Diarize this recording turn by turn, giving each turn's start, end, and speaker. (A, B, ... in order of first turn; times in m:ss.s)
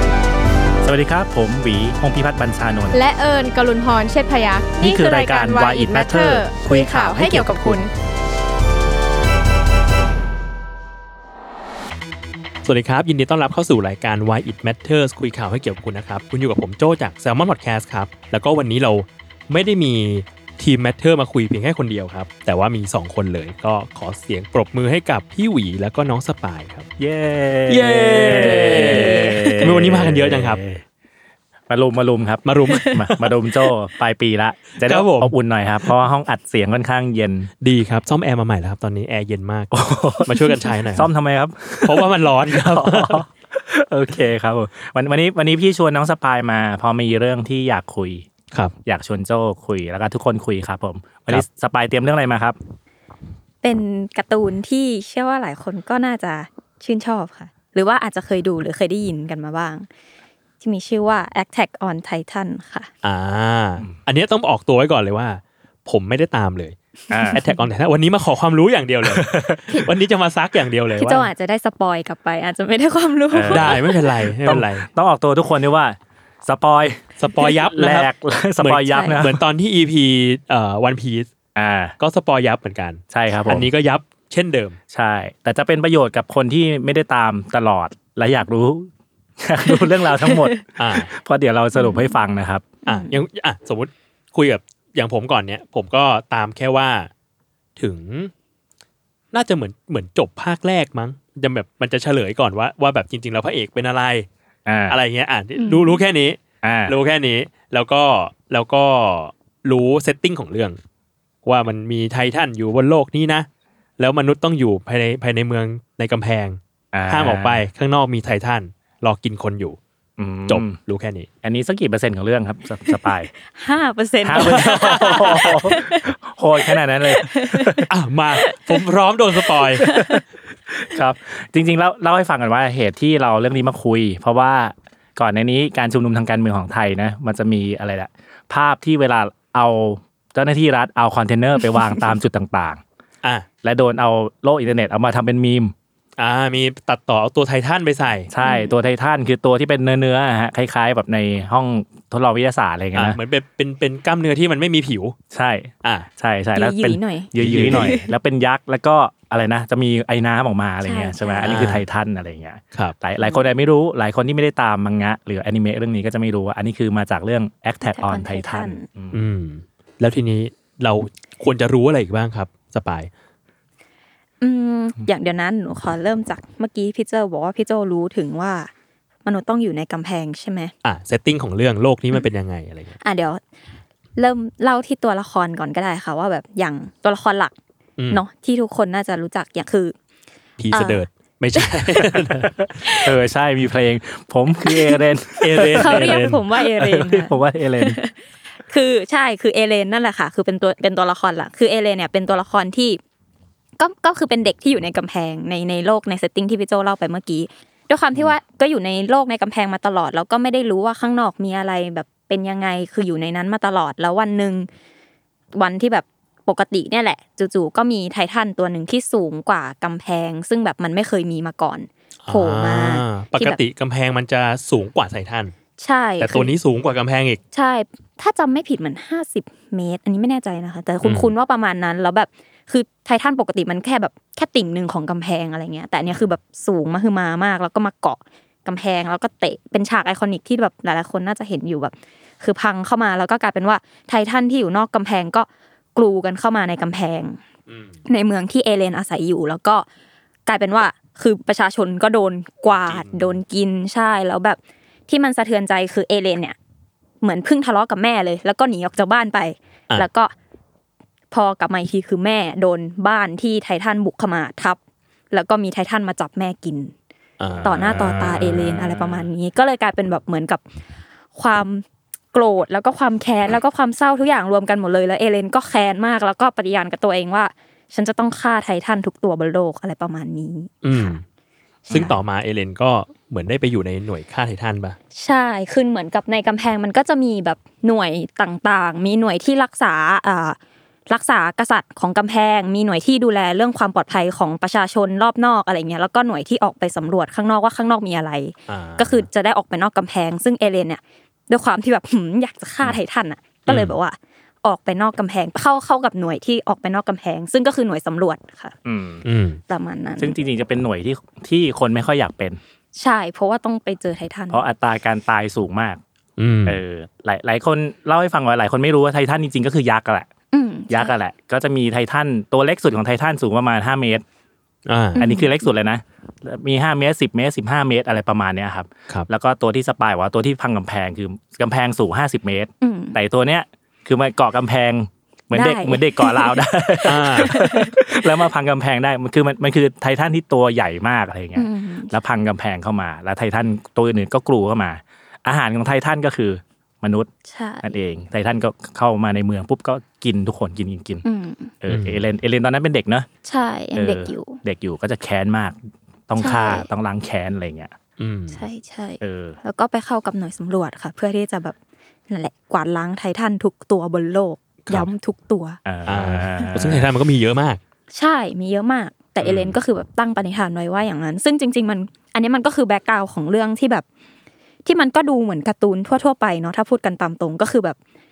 0:00.8-0:03.0 A
0:02.9-0:07.9 B
0:04.8-0:07.9 A
0:12.6-0:26.9 C
0:27.0-0:30.8 A
0:27.7-0:30.6 C
0:29.2-0:29.6 D
0:31.7-0:37.5 A
0:32.4-0:33.4 C
0:34.8-0:35.3 C
0:37.6-0:41.1 C
0:39.7-0:40.3 A
0:40.9-0:48.3 A
0:41.8-0:43.2 C
0:48.9-0:52.6 A
0:53.6-0:59.9 D
1:00.6-1:02.9 D
1:03.0-1:06.8 C
1:07.1-1:07.6 D
1:07.1-1:07.4 A
1:07.3-1:11.3 C
1:09.0-1:09.8 A
1:11.0-1:13.9 D
1:13.3-1:13.8 A
1:13.5-1:14.9 C
1:14.4-1:17.0 A
1:17.2-1:18.1 C
1:17.7-1:19.4 A
1:18.6-1:21.3 C
1:18.9-1:19.2 D
1:21.6-1:21.9 A
1:22.0-1:24.8 C
1:23.1-1:23.7 A
1:24.9-1:28.9 A
1:29.4-1:32.7 A
1:29.7-1:30.6 D
1:30.8-1:31.1 C
1:31.8-1:32.1 D
1:32.8-1:33.1 D
1:32.9-1:37.1 C
1:37.8-1:38.3 C
1:39.3-1:44.3 C
1:44.7-1:45.0 A
1:44.9-1:50.8 C
1:45.6-1:46.0 D
1:46.6-1:47.0 A
1:51.4-1:53.5 C
1:54.0-1:59.8 C
1:56.9-1:57.6 A
2:00.2-2:00.8 A
2:00.5-2:01.3 C
2:01.4-2:03.3 A
2:02.9-2:06.1 D
2:04.2-2:07.9 A
2:04.4-2:05.6 C
2:06.7-2:10.2 D
2:07.9-2:09.9 C
2:10.0-2:22.8 A
2:23.6-2:25.7 A
2:26.2-2:28.3 C
2:28.3-2:33.2 A
2:28.4-2:28.7 D
2:33.0-2:35.2 C
2:35.3-2:49.2 A
2:36.6-2:38.1 D
2:37.4-2:37.9 C
2:40.8-2:41.6 D
2:41.4-2:41.8 C
2:47.8-2:48.9 D
2:49.1-2:53.1 C
2:54.4-2:58.7 D
2:59.2-3:00.7 D
3:00.8-3:03.0 C
3:03.0-3:03.4 D
3:04.2-3:07.5 D
3:08.1-3:10.0 D
3:10.6-3:12.6 C
3:10.7-3:12.0 D
3:12.8-3:13.1 D
3:13.0-3:18.0 A
3:14.6-3:15.0 D
3:15.4-3:16.4 C
3:15.7-3:18.2 D
3:18.7-3:23.0 D
3:23.8-3:34.7 D
3:35.5-3:43.6 D
3:42.2-3:45.6 C
3:45.8-3:46.5 D
3:46.2-3:47.4 C
3:47.5-4:07.4 D
3:51.0-3:51.3 C
4:07.7-4:08.0 C
4:08.1-4:09.9 D
4:10.5-4:16.6 D
4:12.7-4:13.4 C
4:17.2-4:20.3 D
4:21.3-4:24.8 D
4:25.3-4:26.9 D
4:27.4-4:29.2 C
4:27.6-4:30.6 D
4:28.2-4:28.6 A
4:31.3-4:41.2 D
4:40.8-4:41.2 C
4:41.9-4:42.2 A
4:41.9-4:45.0 C
4:45.2-4:50.6 D
4:51.1-5:08.7 D
4:58.7-4:59.3 C
5:03.7-5:03.9 C
5:08.8-5:09.2 A
5:09.2-5:09.6 C
5:09.7-5:10.4 D
5:10.2-5:12.6 A
5:13.0-5:14.6 D
5:14.5-5:16.0 A
5:16.4-5:16.8 C
5:16.7-5:20.3 A
5:20.5-5:21.1 D
5:20.9-5:24.2 A
5:24.9-5:25.2 C
5:25.2-5:25.5 D
5:25.2-5:47.3 A
5:32.8-5:33.2 D
5:35.5-5:38.0 D
5:37.1-5:37.5 C
5:41.6-5:42.1 D
5:47.5-5:47.9 D
5:47.8-5:51.2 A
5:51.2-5:51.7 D
5:51.8-5:53.3 A
5:51.9-5:52.2 C
5:53.4-5:54.6 D
5:54.0-5:58.0 A
5:56.4-5:56.9 D
5:58.2-5:58.6 C
5:58.5-6:01.8 D
5:59.2-5:59.6 A
6:02.3-6:05.8 D
6:05.8-6:07.1 A
6:06.1-6:07.8 C
6:08.1-6:14.0 D
6:09.4-6:09.8 C
6:14.8-6:18.0 D